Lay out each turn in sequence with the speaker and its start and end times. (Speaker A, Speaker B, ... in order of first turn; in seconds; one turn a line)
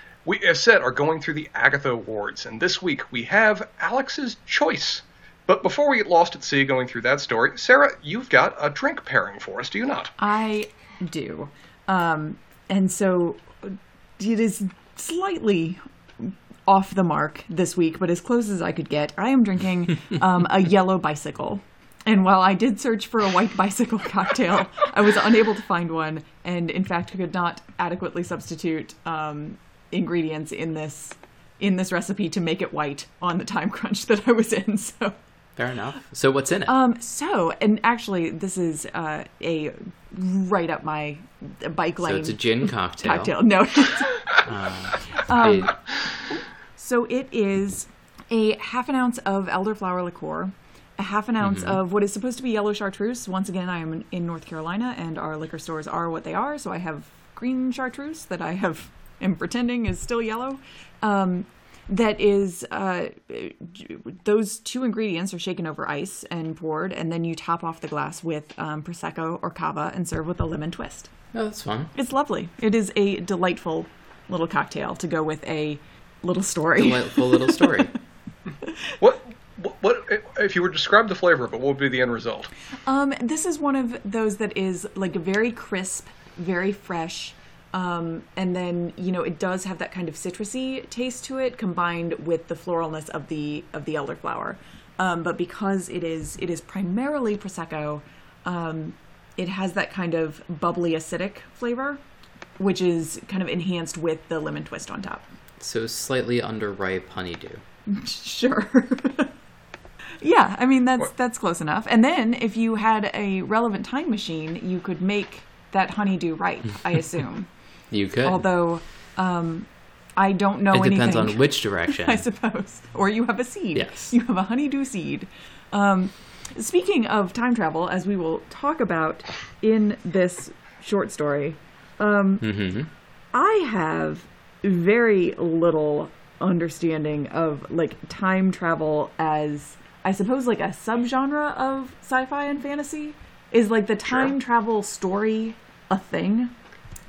Speaker A: 0.2-10.2
Speaker B: 10.2-35.2
Speaker C: 35.6-36.7
Speaker B: 36.7-44.3
Speaker C: 42.0-43.4
Speaker C: 44.4-45.8
Speaker B: 45.2-45.8
Speaker B: 46.8-71.1
Speaker C: 51.4-51.8
Speaker C: 71.3-71.9
Speaker B: 72.0-77.9
Speaker C: 76.8-77.9
Speaker A: 79.0-82.5
Speaker B: 82.9-102.0
Speaker B: 102.6-105.2
Speaker C: 105.6-107.6
Speaker B: 107.9-109.3
Speaker B: 110.2-117.5
Speaker C: 117.9-118.5
Speaker B: 118.2-132.4
Speaker C: 120.7-122.2
Speaker C: 123.7-124.1
Speaker C: 132.4-132.9
Speaker B: 133.3-146.5
Speaker A: 144.1-144.3